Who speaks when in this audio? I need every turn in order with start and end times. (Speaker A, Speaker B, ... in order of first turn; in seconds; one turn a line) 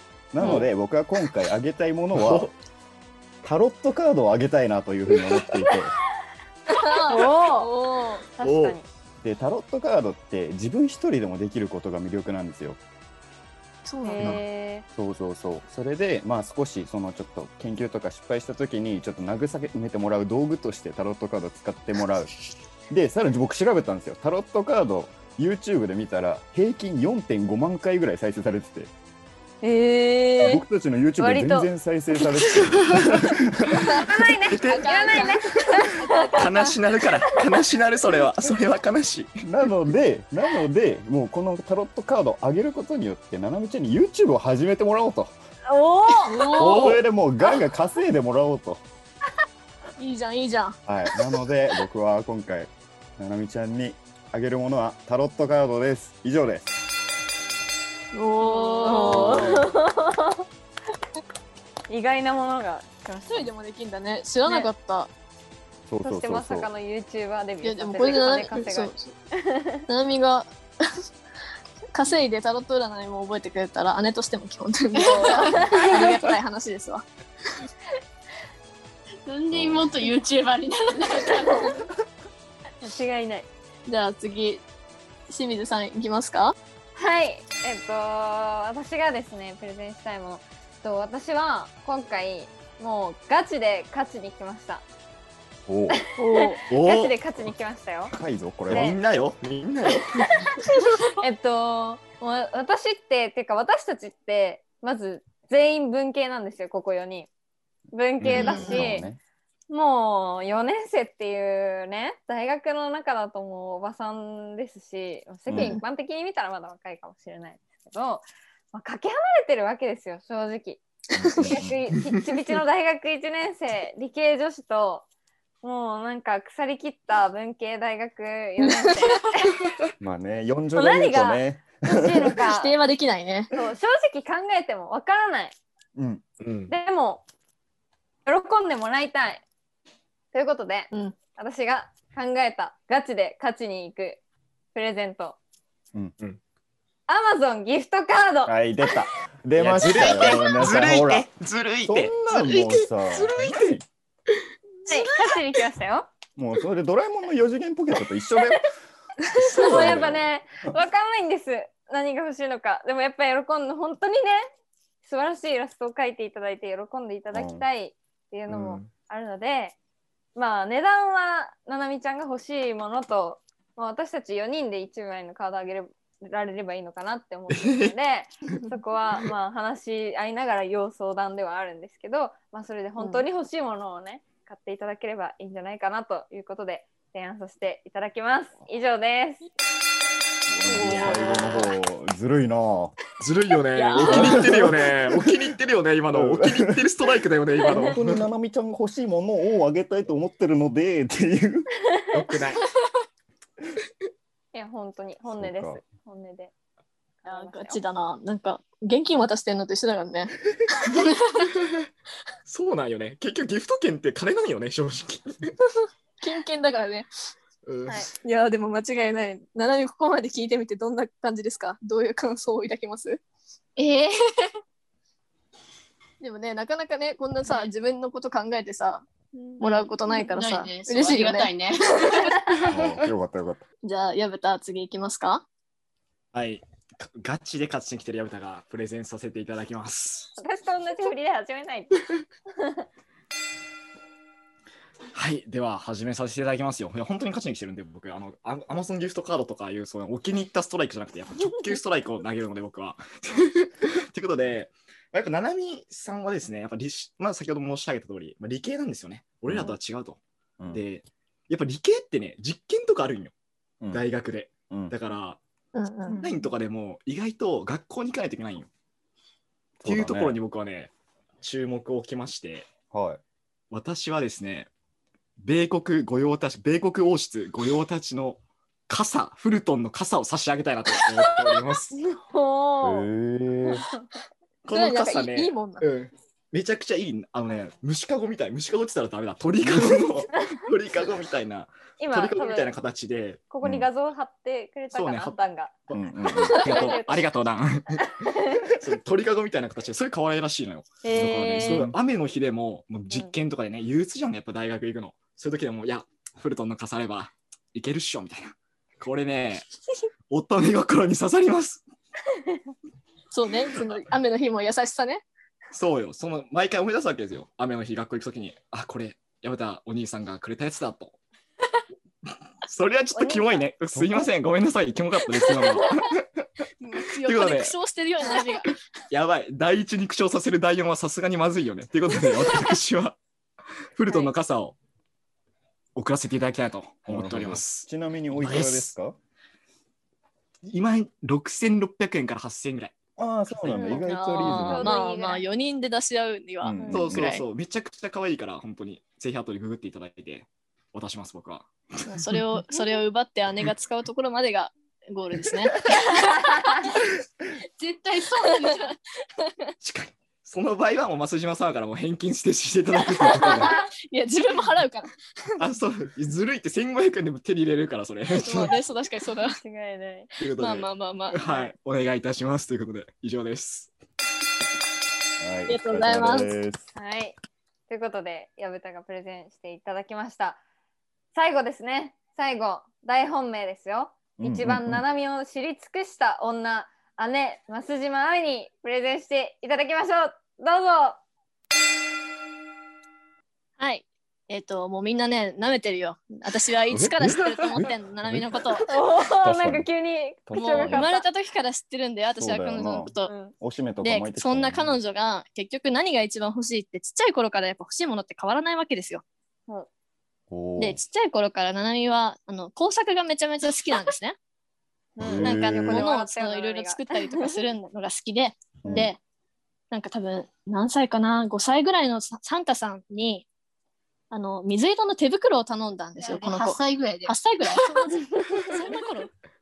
Speaker A: 0.3-2.5
Speaker B: 0.4-0.7
Speaker B: 2.1-2.5
Speaker A: 3.4-5.9
Speaker B: 5.1-5.5
Speaker C: 6.7-8.2
Speaker D: 7.0-7.7
Speaker D: 8.3-8.9
Speaker B: 8.4-8.8
Speaker A: 9.2-12.8
Speaker C: 13.8-14.4
Speaker D: 14.0-14.8
Speaker A: 14.9-22.3
Speaker A: 22.9-28.9
Speaker D: 29.6-30.6
Speaker A: 30.4-34.2
Speaker D: 31.2-31.7
Speaker D: 33.8-36.7
Speaker B: 34.5-34.9
Speaker C: 34.6-36.5
Speaker B: 36.3-39.3
Speaker A: 39.4-45.3
Speaker C: 45.7-46.9
Speaker D: 46.2-46.9
Speaker A: 46.5-48.8
Speaker B: 46.6-47.0
Speaker C: 50.0-50.8
Speaker A: 50.9-56.6
Speaker C: 58.1-59.6
Speaker D: 58.4-60.4
Speaker A: 59.0-59.7
Speaker D: 61.9-63.5
Speaker C: 63.1-65.1
Speaker A: 65.9-66.7
Speaker D: 66.0-69.8
Speaker C: 67.6-69.1
Speaker C: 69.9-70.5
Speaker C: 71.9-77.0
Speaker D: 74.9-76.2
Speaker E: 75.0-75.9
Speaker E: 79.2-81.7
Speaker A: 79.5-80.0
Speaker C: 81.1-81.7
Speaker D: 82.8-83.5
Speaker C: 83.8-84.6
Speaker C: 85.3-86.5
Speaker D: 87.0-94.8
Speaker A: 95.7-96.0
Speaker D: 95.9-98.1
Speaker C: 96.2-96.6
Speaker B: 96.7-97.2
Speaker A: 98.1-98.9
Speaker D: 98.7-99.0
Speaker B: 98.7-100.5
Speaker D: 101.0-107.3
Speaker D: 107.9-109.1
Speaker B: 108.2-108.7
Speaker A: 108.3-109.2
Speaker D: 109.7-120.8
Speaker A: 115.5-115.8
Speaker A: 121.1-121.8
Speaker D: 121.4-125.0
Speaker D: 125.6-129.5
Speaker A: 130.0-132.3
Speaker D: 130.7-132.8
Speaker C: 132.5-133.5
Speaker D: 133.5-135.6
Speaker A: 135.9-136.2
Speaker B: 136.4-136.7
Speaker D: 136.7-137.2
Speaker D: 138.2-139.4
Speaker D: 140.3-144.2
Speaker D: 144.7-145.4
Speaker D: 147.1-148.6
Speaker A: 148.5-151.3
Speaker B: 149.6-153.8
Speaker D: 149.8-150.4
Speaker A: 151.8-153.7
Speaker D: 154.9-156.1
Speaker A: 156.4-158.7
Speaker B: 159.4-160.2
Speaker A: 159.5-160.3
Speaker D: 159.6-164.4
Speaker D: 165.0-169.8
Speaker A: 167.3-167.6
Speaker B: 168.5-168.9
Speaker D: 170.3-189.5
Speaker B: 177.5-177.9
Speaker C: 183.0-183.2
Speaker A: 190.5-193.0
Speaker C: 190.7-191.4
Speaker D: 191.0-191.4
Speaker B: 193.2-198.2
Speaker C: 193.7-194.5
Speaker A: 193.9-195.3
Speaker A: 196.1-196.9
Speaker A: 197.6-201.7
Speaker B: 202.1-202.6
Speaker D: 204.5-206.5
Speaker A: 205.3-205.8
Speaker D: 207.2-207.8
Speaker C: 207.3-211.4
Speaker B: 210.9-211.9
Speaker B: 212.4-215.5
Speaker C: 216.2-217.1
Speaker B: 217.7-218.1
Speaker C: 218.2-223.2
Speaker C: 226.2-229.1
Speaker D: 229.3-229.8
Speaker C: 229.6-232.3
Speaker E: 230.1-232.4
Speaker A: 232.6-233.6
Speaker C: 233.8-235.4
Speaker B: 236.3-240.3
Speaker D: 240.4-241.9
Speaker D: 242.6-242.8
Speaker B: 245.1-263.3
Speaker A: 259.4-259.8
Speaker B: 263.9-265.4
Speaker C: 265.7-266.2
Speaker E: 266.1-266.3
Speaker B: 266.2-268.7
Speaker A: 269.8-270.4
Speaker B: 269.8-272.7
Speaker A: 272.9-273.2
Speaker B: 273.7-274.7
Speaker B: 275.4-282.0
Speaker D: 281.9-283.1
Speaker A: 282.8-283.8
Speaker B: 284.6-293.4
Speaker C: 284.7-285.8
Speaker A: 289.6-290.1
Speaker D: 292.0-292.7
Speaker D: 293.5-295.7
Speaker A: 293.6-293.9
Speaker B: 294.9-298.1
Speaker A: 295.9-296.7
Speaker D: 296.3-297.3
Speaker D: 298.0-298.7
Speaker B: 298.7-309.6
Speaker D: 301.0-301.9
Speaker A: 301.2-301.9
Speaker B: 310.3-311.8
Speaker C: 313.3-315.2
Speaker B: 315.7-321.2
Speaker B: 322.6-326.2
Speaker D: 323.1-323.7
Speaker A: 323.9-324.3
Speaker C: 326.8-328.7
Speaker B: 327.2-327.8
Speaker B: 329.1-333.2
Speaker B: 334.0-334.8
Speaker B: 335.9-338.9
Speaker A: 337.1-339.1
Speaker B: 340.6-342.9
Speaker A: 343.2-344.9
Speaker D: 343.6-345.4
Speaker C: 343.8-347.4
Speaker A: 346.6-347.3
Speaker D: 346.8-347.1
Speaker B: 346.9-352.4
Speaker C: 352.1-356.7
Speaker E: 357.8-358.9
Speaker C: 358.5-358.9
Speaker B: 359.8-363.8
Speaker C: 363.0-365.1
Speaker B: 365.6-368.7
Speaker C: 368.3-369.6
Speaker D: 369.6-370.3
Speaker B: 370.4-373.9
Speaker C: 370.6-371.4
Speaker D: 371.4-371.7
Speaker A: 375.4-376.9
Speaker C: 375.7-376.5
Speaker D: 376.9-377.4
Speaker D: 377.9-380.6
Speaker D: 381.3-391.2
Speaker A: 384.4-385.0
Speaker C: 393.8-398.9
Speaker A: 396.9-398.7
Speaker D: 398.9-401.3
Speaker A: 399.3-399.9
Speaker A: 400.5-401.1
Speaker C: 400.5-403.3
Speaker A: 402.4-405.0
Speaker D: 403.2-403.5
Speaker C: 404.0-409.2
Speaker A: 410.5-411.0
Speaker C: 410.8-414.4
Speaker D: 415.1-417.6
Speaker A: 415.2-416.1
Speaker C: 415.4-419.2
Speaker A: 418.8-419.1
Speaker C: 419.9-423.5
Speaker C: 424.3-429.3
Speaker E: 426.2-427.9